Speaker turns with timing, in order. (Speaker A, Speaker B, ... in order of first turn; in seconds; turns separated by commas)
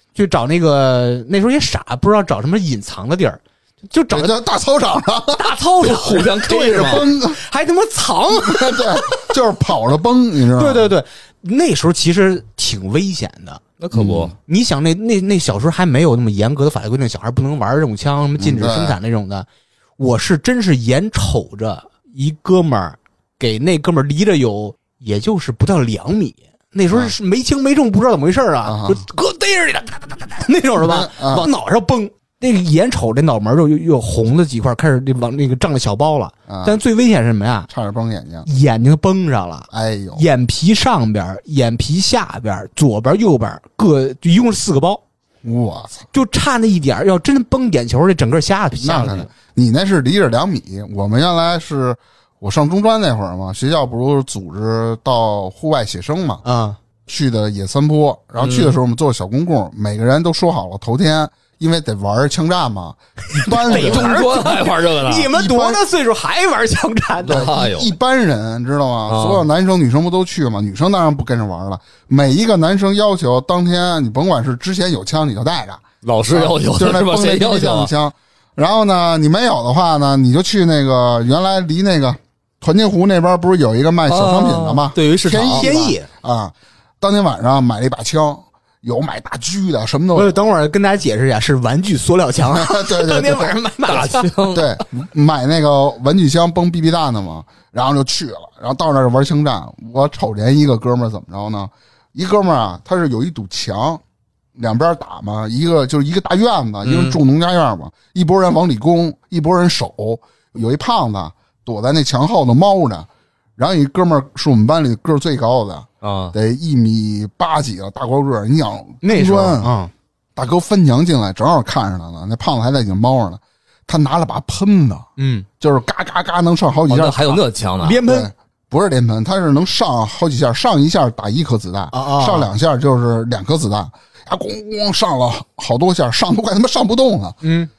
Speaker A: 0.1-4.4, Speaker B: 4.1-5.4, Speaker A: 5.4-9.3, Speaker C: 5.4-7.1, Speaker B: 6.5-7.4, Speaker B: 8.4-10.9, Speaker A: 10.6-13.6, Speaker C: 13.8-14.3, Speaker B: 13.9-14.3, Speaker A: 14.4-19.5, Speaker B: 18.4-19.0, Speaker A: 20.0-37.7, Speaker B: 28.6-29.0, Speaker B: 30.8-31.5, Speaker B: 36.5-36.8, Speaker B: 37.7-38.5, Speaker A: 38.5-45.0, Speaker B: 39.7-40.2, Speaker B: 45.4-46.1, Speaker A: 46.1-49.3, Speaker B: 48.8-56.4, Speaker A: 56.4-56.8, Speaker B: 57.1-64.2, Speaker C: 58.4-58.8, Speaker A: 63.3-67.5, Speaker C: 63.7-65.3, Speaker B: 65.3-65.8, Speaker C: 67.2-67.9, Speaker B: 67.3-90.4, Speaker C: 69.1-69.5, Speaker C: 76.0-77.9, Speaker C: 84.1-85.7, Speaker A: 85.4-86.1, Speaker A: 90.1-94.3, Speaker B: 92.5-93.5, Speaker C: 93.8-94.8, Speaker B: 94.5-104.0, Speaker B: 104.6-119.7, Speaker C: 106.8-107.2, Speaker C: 116.0-116.3, Speaker A: 119.0-119.9, Speaker B: 120.4-125.1, Speaker A: 125.2-125.5, Speaker B: 125.6-127.4, Speaker C: 126.9-128.0, Speaker A: 127.8-128.3, Speaker B: 128.1-137.4, Speaker A: 131.9-132.5, Speaker A: 137.4-137.7